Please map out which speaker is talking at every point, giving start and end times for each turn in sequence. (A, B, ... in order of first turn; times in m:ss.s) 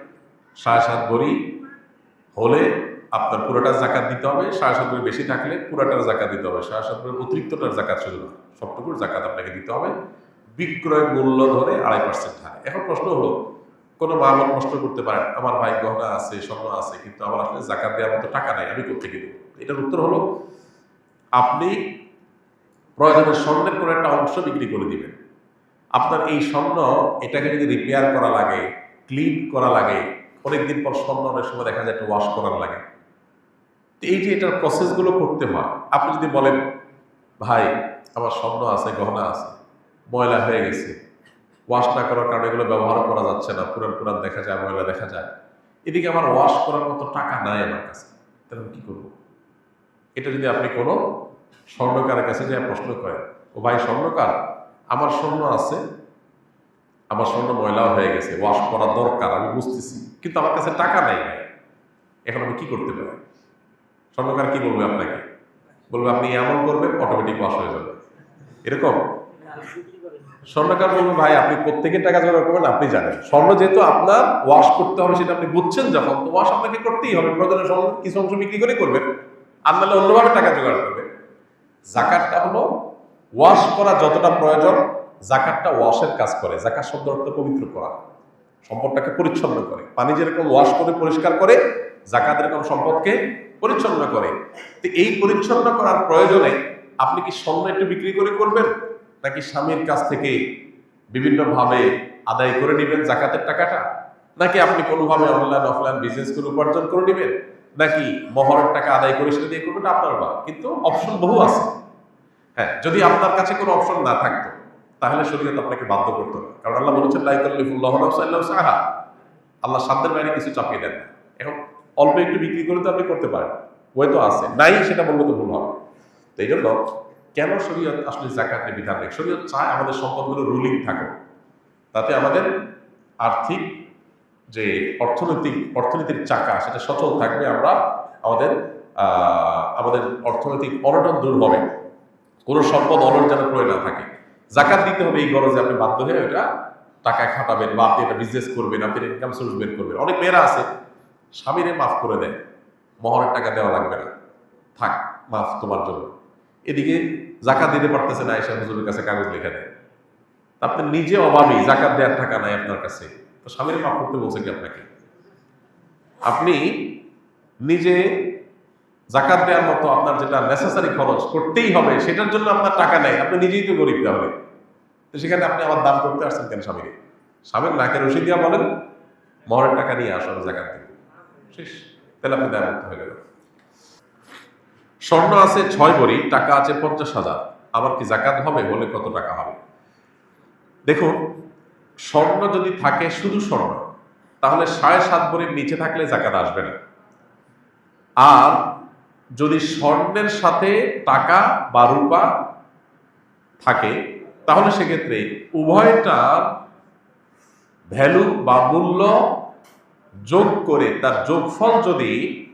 0:00.6-0:01.5 A
0:02.4-0:09.9 A
0:10.6-0:13.4 A
0:14.0-0:20.2 A
0:21.4-0:21.8 A
0:23.0-0:25.2 A
0:26.0-0:32.8 A
0:34.0-0:36.6 A
0:37.4-0:39.6 A
0:40.1-0:41.0 A
0:41.7-0:45.3 A
0:45.9-0:49.1 A
0:50.2-0:51.0 A
0:51.7-0:54.4 A
0:54.9-0:55.8 A
0:57.1-1:01.5 A
1:02.3-1:03.2 A
1:04.1-1:05.2 A
1:05.9-1:08.0 A
1:08.6-1:09.0 A
1:10.5-1:19.1 A
1:19.7-1:21.1 A
1:21.9-1:22.7 A
1:23.4-1:28.0 A
1:28.6-1:40.4 A
1:41.1-1:43.8 A
1:44.4-1:51.7 A
1:52.6-1:58.8 A
1:59.6-2:05.8 A
2:06.4-2:06.8 A
2:07.3-2:11.1 A
2:11.9-2:12.5 A
2:13.2-2:13.8 A
2:14.5-2:21.6 A
2:22.5-2:26.5 A
2:27.0-2:30.7 A
2:31.4-2:32.4 A
2:33.0-2:34.1 A
2:34.8-2:36.1 A
2:36.7-2:39.7 A
2:40.6-2:44.9 A
2:46.2-2:46.9 A
2:47.6-2:48.3 A
2:49.1-2:54.3 A
2:55.1-2:56.9 A
2:57.5-2:58.7 A
2:59.5-3:01.0 A
3:01.5-3:03.2 A
3:05.1-3:09.6 A
3:10.9-3:11.2 A
3:12.1-3:13.8 A
3:14.4-3:16.8 A
3:18.2-3:18.6 A
3:19.4-3:22.3 A
3:23.6-3:26.5 A
3:27.9-3:29.2 A
3:30.3-3:32.2 A